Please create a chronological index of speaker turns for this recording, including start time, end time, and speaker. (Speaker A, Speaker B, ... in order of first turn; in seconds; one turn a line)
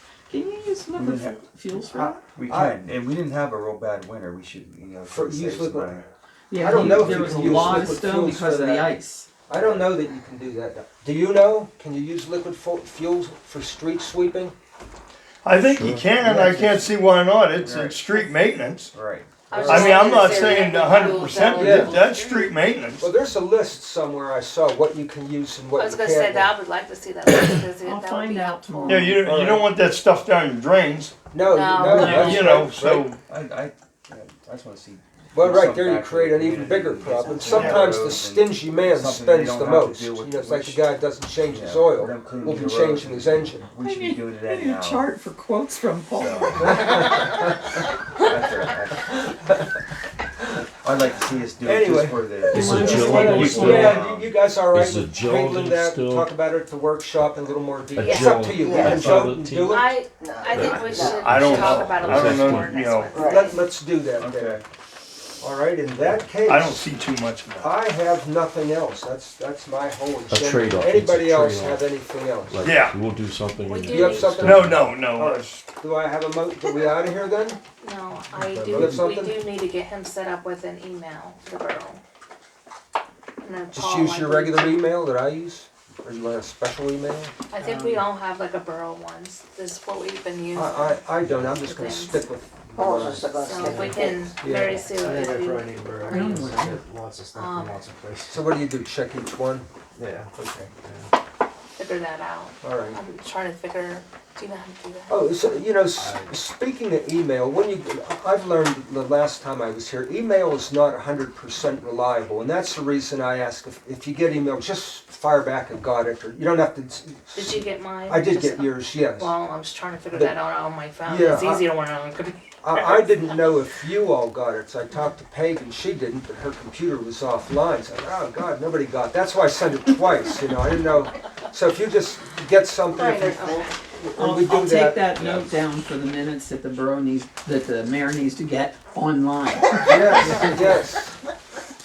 Speaker A: 0.3-2.2
Speaker B: 0.9-1.4
Speaker C: 2.0-2.8
Speaker B: 2.2-6.0
Speaker C: 5.0-6.0
Speaker A: 6.5-9.3
Speaker C: 6.5-8.9
Speaker B: 6.8-7.9
Speaker C: 9.5-14.5
Speaker B: 9.5-10.0
Speaker D: 15.4-18.9
Speaker E: 15.7-16.0
Speaker B: 17.6-18.1
Speaker B: 18.9-19.3
Speaker F: 19.5-22.5
Speaker C: 19.5-20.7
Speaker D: 19.6-23.1
Speaker C: 21.4-22.0
Speaker C: 23.0-26.5
Speaker F: 25.8-29.1
Speaker A: 27.8-29.2
Speaker D: 28.9-31.1
Speaker C: 29.1-29.7
Speaker C: 31.3-33.1
Speaker F: 31.4-32.6
Speaker D: 31.8-33.2
Speaker A: 31.9-32.3
Speaker B: 33.3-45.1
Speaker C: 35.3-43.6
Speaker G: 37.3-37.8
Speaker D: 37.5-37.8
Speaker A: 43.8-46.8
Speaker B: 46.1-47.3
Speaker C: 46.6-47.5
Speaker B: 48.1-49.3
Speaker B: 50.8-54.3
Speaker C: 51.6-60.0
Speaker A: 52.5-53.8
Speaker E: 52.6-54.0
Speaker D: 52.6-53.8
Speaker E: 54.7-56.3
Speaker E: 58.0-59.8
Speaker F: 58.0-58.5
Speaker G: 58.5-59.1
Speaker D: 58.7-59.3
Speaker F: 59.6-63.7
Speaker G: 60.0-61.9
Speaker D: 60.6-63.2
Speaker E: 61.3-62.8
Speaker G: 63.1-63.6
Speaker C: 63.1-64.6
Speaker B: 64.1-64.6
Speaker C: 65.4-66.8
Speaker D: 66.4-67.8
Speaker C: 67.6-72.7
Speaker E: 70.3-71.8
Speaker D: 72.6-73.0
Speaker E: 72.6-74.8
Speaker F: 73.7-74.5
Speaker C: 73.9-77.6
Speaker D: 74.1-75.6
Speaker F: 77.8-82.0
Speaker B: 78.3-79.2
Speaker C: 78.7-79.4
Speaker F: 83.4-84.9
Speaker C: 83.7-87.3
Speaker F: 87.5-92.2
Speaker C: 90.5-94.0
Speaker G: 92.7-94.3
Speaker F: 93.4-96.5
Speaker G: 95.0-98.3
Speaker E: 95.5-97.8
Speaker A: 96.1-96.8
Speaker F: 97.3-97.8
Speaker C: 98.3-99.7
Speaker G: 100.0-100.3
Speaker C: 100.3-100.7
Speaker F: 101.8-105.5
Speaker C: 102.6-103.0
Speaker C: 105.1-119.3
Speaker F: 117.3-123.0
Speaker C: 120.1-120.3
Speaker C: 121.0-121.7
Speaker C: 122.6-133.6
Speaker G: 132.9-133.7
Speaker F: 133.4-133.7
Speaker A: 134.2-140.8
Speaker C: 134.2-135.0
Speaker B: 135.2-135.5
Speaker C: 139.9-141.1